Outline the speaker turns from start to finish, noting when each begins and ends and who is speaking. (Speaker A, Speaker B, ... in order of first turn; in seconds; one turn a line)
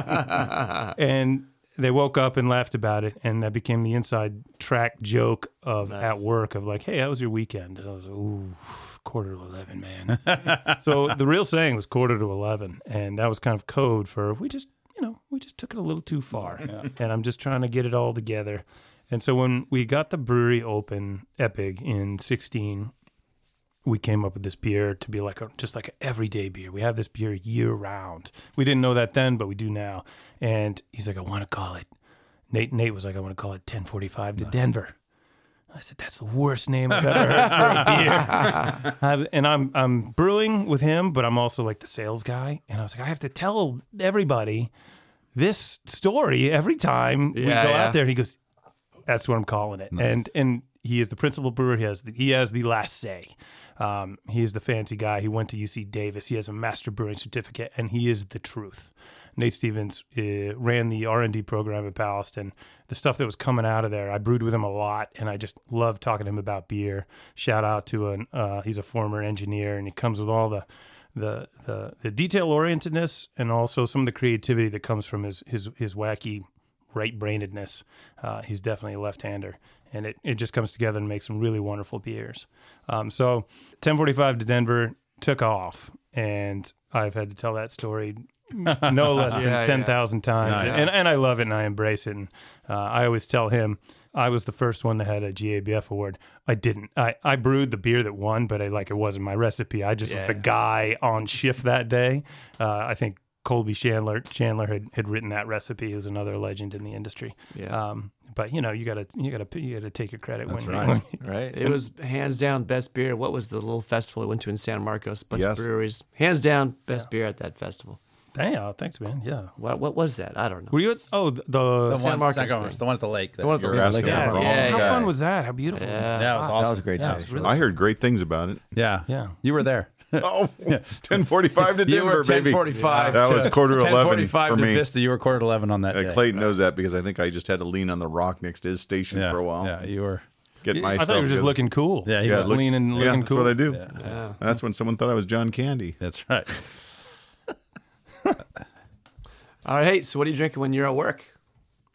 Speaker A: 0.9-22.9
Speaker B: 5.9-6.2
Speaker A: 23.9-31.9
Speaker A: 32.5-34.9
Speaker A: 35.7-44.7
Speaker C: 37.0-37.8
Speaker B: 37.5-38.8
Speaker A: 45.4-48.4
Speaker B: 47.3-48.0
Speaker A: 49.1-111.2
Speaker C: 88.7-89.4
Speaker B: 89.3-90.9
Speaker C: 90.4-90.9
Speaker B: 100.0-100.5
Speaker C: 110.5-111.0
Speaker D: 111.2-111.7
Speaker B: 111.5-118.0
Speaker E: 115.3-115.7
Speaker A: 118.3-119.5
Speaker B: 119.6-120.8
Speaker A: 120.7-122.2
Speaker C: 121.9-124.2
Speaker B: 121.9-122.8
Speaker B: 123.4-125.0
Speaker E: 123.6-125.1
Speaker D: 123.7-124.7
Speaker A: 124.0-127.6
Speaker B: 125.7-126.5
Speaker C: 126.2-127.6
Speaker D: 126.5-127.4
Speaker E: 127.4-128.6
Speaker C: 128.7-136.3
Speaker A: 129.1-129.4
Speaker E: 130.2-134.8
Speaker B: 132.8-133.6
Speaker E: 135.9-139.7
Speaker C: 139.1-140.2
Speaker E: 140.6-141.6
Speaker A: 140.7-143.6
Speaker C: 142.1-144.2
Speaker E: 142.2-146.0
Speaker B: 144.0-144.4
Speaker C: 146.0-146.9
Speaker B: 149.7-151.3